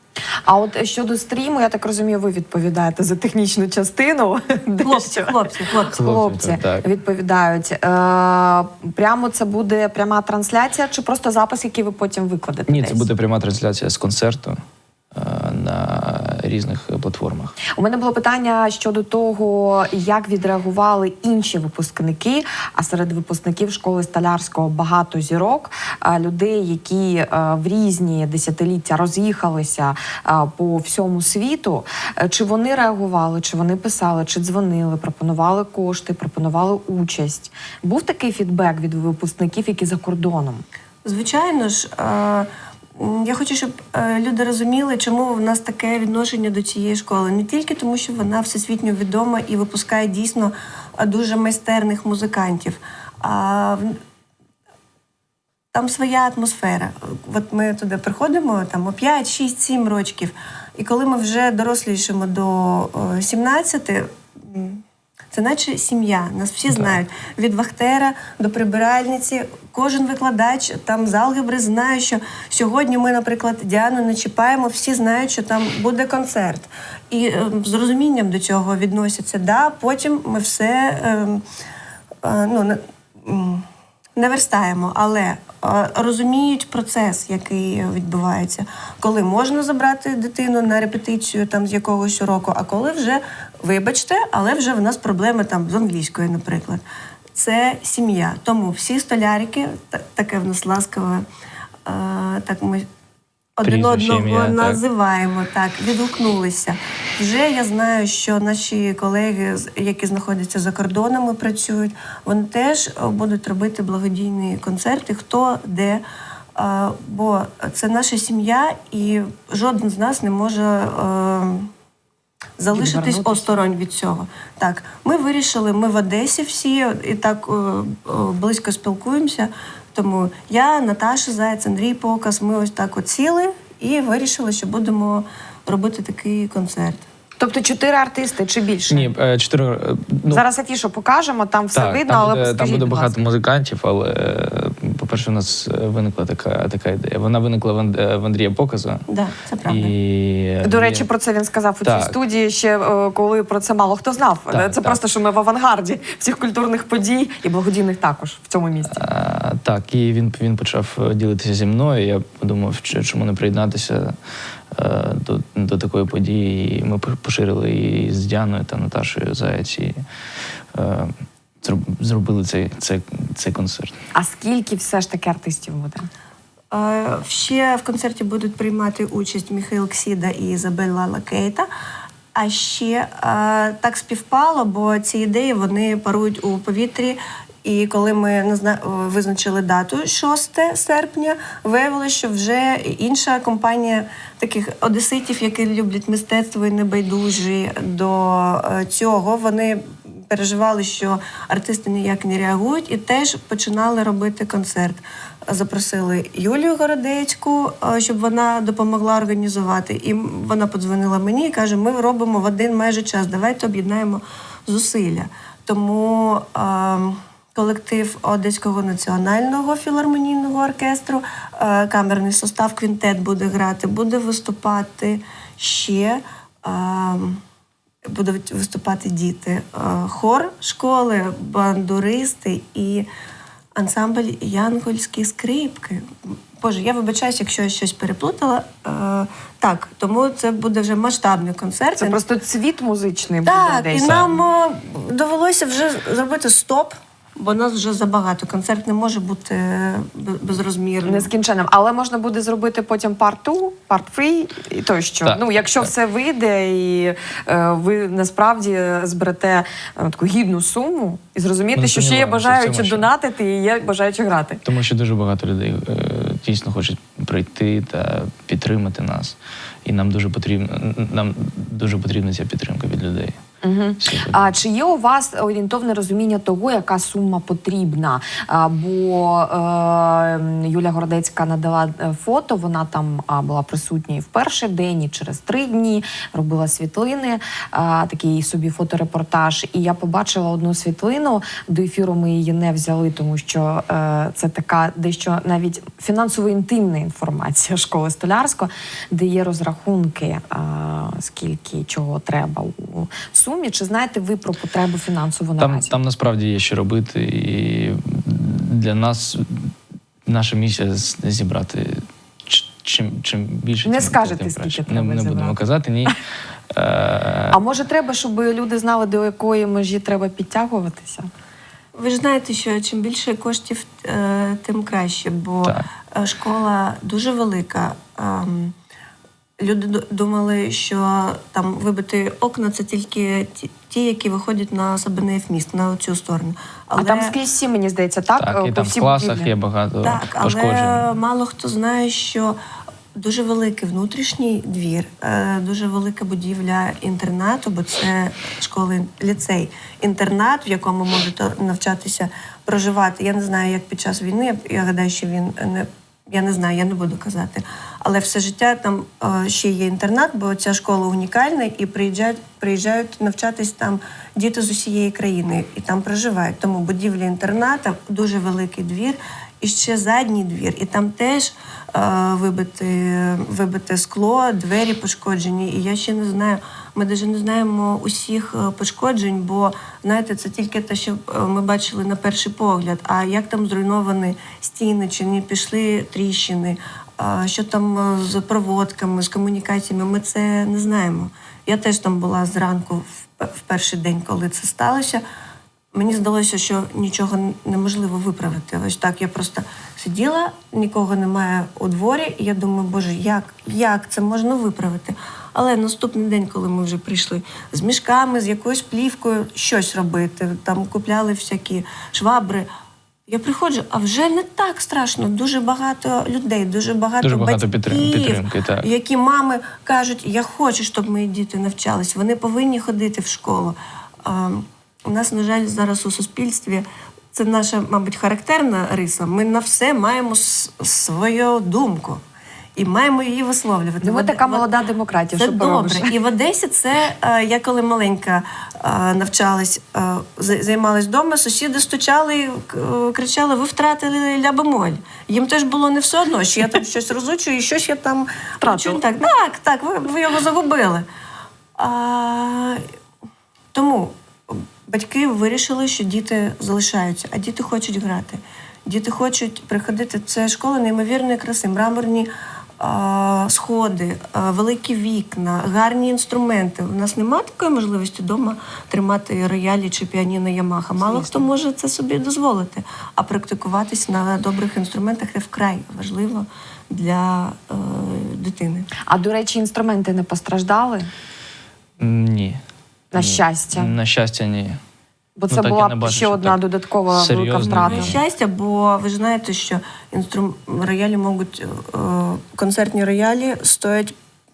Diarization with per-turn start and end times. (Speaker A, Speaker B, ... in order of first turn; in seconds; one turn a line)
Speaker A: 0.5-13.1
Speaker B: 4.8-6.0
Speaker C: 5.9-6.9
Speaker C: 12.7-14.6
Speaker C: 15.1-17.6
Speaker A: 17.8-40.6
Speaker B: 41.0-54.0
Speaker B: 55.7-81.4
Speaker B: 82.2-96.8
Speaker B: 97.3-101.2
Speaker B: 101.8-102.9
Speaker B: 103.6-116.0
Speaker C: 103.6-104.8
Speaker B: 116.5-121.7
Speaker B: 122.6-137.0
Speaker A: 122.7-123.6
Speaker A: 137.4-139.1
Speaker C: 138.9-140.4
Speaker A: 140.3-143.2
Speaker C: 141.7-149.1
Speaker B: 149.1-149.9
Speaker C: 149.7-151.1
Speaker A: 150.6-159.0
Speaker C: 151.8-152.2
Speaker C: 154.5-155.0
Speaker C: 158.9-164.2
Speaker C: 164.7-170.0
Speaker C: 170.7-174.0
Speaker A: 174.2-176.1
Speaker B: 176.7-181.7
Speaker B: 182.3-227.4
Speaker B: 228.0-233.1
Speaker B: 233.8-242.2
Speaker A: 242.0-244.3
Speaker B: 243.4-251.3
Speaker C: 244.0-244.3
Speaker A: 251.0-264.6
Speaker C: 255.2-255.9
Speaker C: 261.8-263.1
Speaker C: 264.6-273.4
Speaker A: 273.6-306.0
Speaker C: 274.0-274.5
Speaker C: 305.6-309.7
Speaker C: 310.2-317.6
Speaker A: 313.8-316.1
Speaker A: 317.5-321.3
Speaker B: 321.9-328.8
Speaker B: 329.6-337.3
Speaker A: 337.0-339.5
Speaker C: 338.4-341.1
Speaker B: 340.0-342.6
Speaker B: 343.1-395.2
Speaker B: 395.9-412.7
Speaker B: 413.3-432.2
Speaker C: 417.2-418.9
Speaker B: 432.8-434.7
Speaker A: 434.0-436.1
Speaker B: 435.4-451.1
Speaker A: 448.6-449.0
Speaker B: 451.8-452.8
Speaker B: 453.7-478.9
Speaker A: 471.0-471.4
Speaker A: 479.1-481.1
Speaker C: 482.0-482.6
Speaker A: 483.1-483.9
Speaker C: 483.1-484.8
Speaker A: 485.4-488.2
Speaker C: 485.5-488.2
Speaker B: 487.7-494.1